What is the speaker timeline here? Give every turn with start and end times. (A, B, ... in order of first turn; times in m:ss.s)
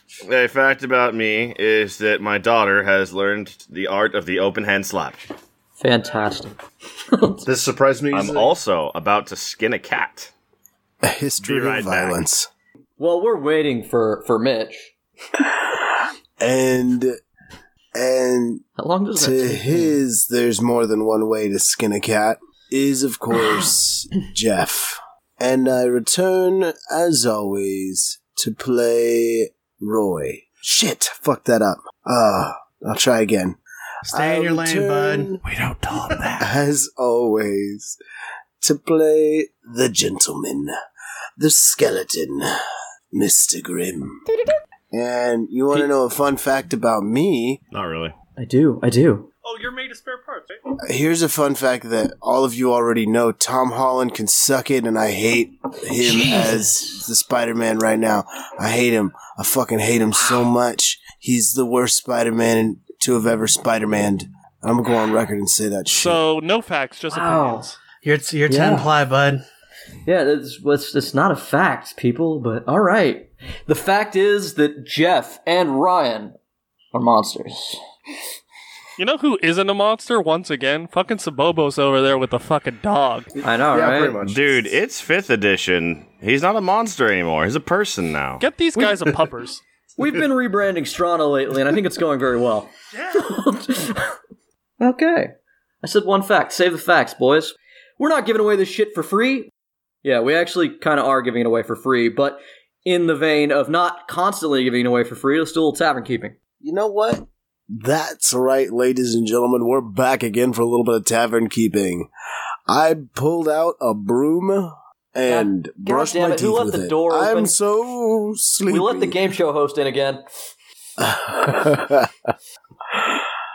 0:00.2-0:05.2 A
0:05.8-0:06.6 B
0:07.1-0:07.5 B
0:07.4-0:08.5 C
0:08.1-0:10.3 A
0:11.0-0:12.5 D
0:11.4-0:12.2 A
0:13.0-0:14.9 B
0:16.4-0:17.2 D
0:18.0-0:18.6 D
0:18.8-0:20.0 B
0:19.2-0:35.4 D
0:34.0-0:35.4 E
0:35.4-0:36.5 A
0:36.4-0:38.0 D
0:38.6-0:40.7 D
0:41.4-0:42.5 D
0:43.1-0:44.2 D
0:44.9-0:47.6 D
0:47.7-0:48.2 A
0:48.4-0:49.3 B
0:49.4-0:50.6 F
0:50.8-1:06.2 D
0:56.0-0:56.7 B
1:05.9-1:07.8 F
1:07.1-1:07.7 B
1:08.0-1:09.4 E
1:08.5-1:08.9 B
1:10.1-1:16.4 B
1:16.9-1:17.8 B
1:19.0-1:23.3 F
1:23.4-1:24.2 B
1:23.7-1:24.7 C
1:24.2-1:28.4 A
1:28.4-1:29.6 F
1:30.0-1:34.1 B
1:34.8-1:39.5 B
1:40.0-1:46.4 B
1:46.6-1:52.1 D
1:52.7-1:59.2 D
1:55.3-1:57.6 B
1:58.7-2:00.2 B
2:01.0-2:02.3 D
2:02.9-2:03.3 D